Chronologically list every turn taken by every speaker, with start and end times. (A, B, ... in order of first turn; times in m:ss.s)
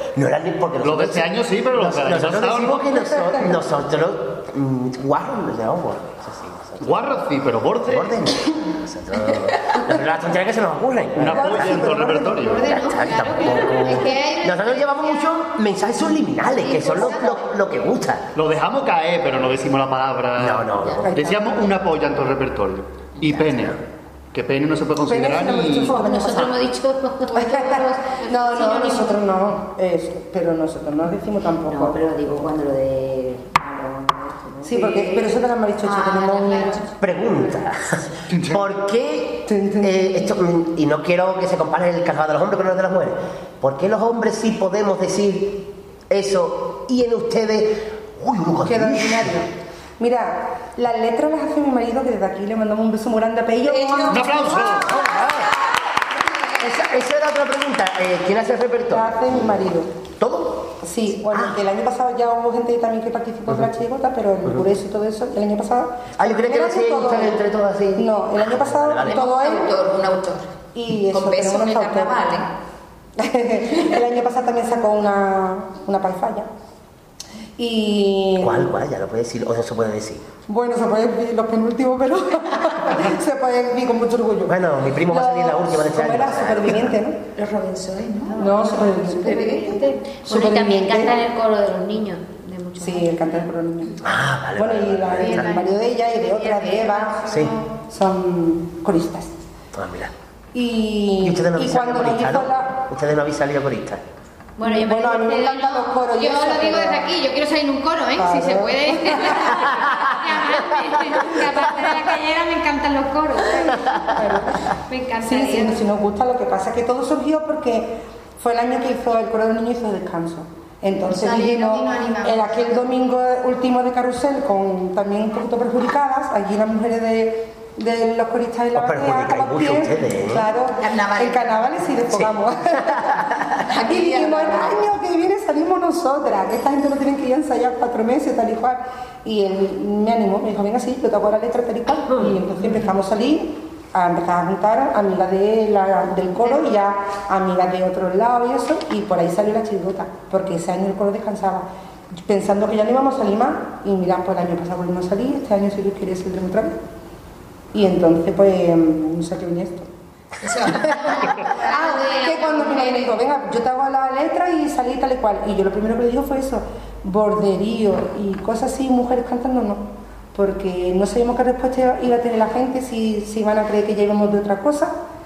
0:00.2-0:06.9 A
0:00.8-0:02.9 B
0:03.1-0:03.5 C
0:06.8-0:08.3 B
0:07.8-0:11.8 A
0:11.2-0:12.8 B
0:11.2-0:12.7 C
0:12.4-0:15.4 D
0:12.6-0:18.3 A
0:16.4-0:17.4 D
0:18.4-0:23.8 B
0:20.4-0:21.1 A
0:21.0-0:21.6 C
0:24.3-0:26.0 B
0:25.0-0:26.6 C
0:25.9-0:29.1 E
0:27.3-0:32.0 C
0:31.7-0:35.2 E
0:34.6-0:36.8 C
0:36.4-0:36.8 D
0:37.0-0:49.4 A
0:38.3-0:38.6 B
0:39.5-0:40.3 C
0:48.6-0:49.5 C
0:50.0-0:54.8 C
0:53.6-0:55.6 F
0:54.1-0:55.4 B
0:55.0-0:55.4 A
0:56.6-0:59.5 A
0:58.9-0:59.9 C
1:00.2-1:00.8 A
1:00.8-1:07.4 C
1:01.3-1:01.6 A
1:06.2-1:09.2 A
1:08.0-1:09.7 C
1:09.0-1:10.5 F
1:10.8-1:12.2 C
1:11.1-1:12.5 F
1:13.2-1:16.5 C
1:17.6-1:18.7 C
1:18.4-1:20.2 A
1:20.5-1:27.2 C
1:24.5-1:27.0 A
1:27.4-1:29.8 F
1:28.3-1:28.6 D
1:28.4-1:31.2 C
1:29.6-1:30.2 D
1:30.2-1:33.3 E
1:32.8-1:34.0 C
1:34.0-1:35.6 A
1:34.6-1:39.3 C
1:35.2-1:37.6 D
1:37.3-1:37.5 A
1:39.7-1:40.1 A
1:40.5-1:42.8 C
1:41.2-1:44.0 A
1:44.6-1:45.8 E
1:44.6-1:47.1 C
1:46.1-1:54.2 D
1:48.2-1:49.6 C
1:54.1-1:54.6 C
1:54.9-1:55.8 D
1:55.2-2:13.3 C
2:01.1-2:02.9 D
2:08.8-2:10.5 A
2:10.8-2:11.7 F
2:12.1-2:13.6 A
2:13.7-2:14.8 F
2:13.8-2:31.7 C
2:32.2-2:36.8 C
2:37.7-2:39.9 C
2:40.4-2:41.6 F
2:40.8-2:54.9 C
2:41.0-2:43.1 D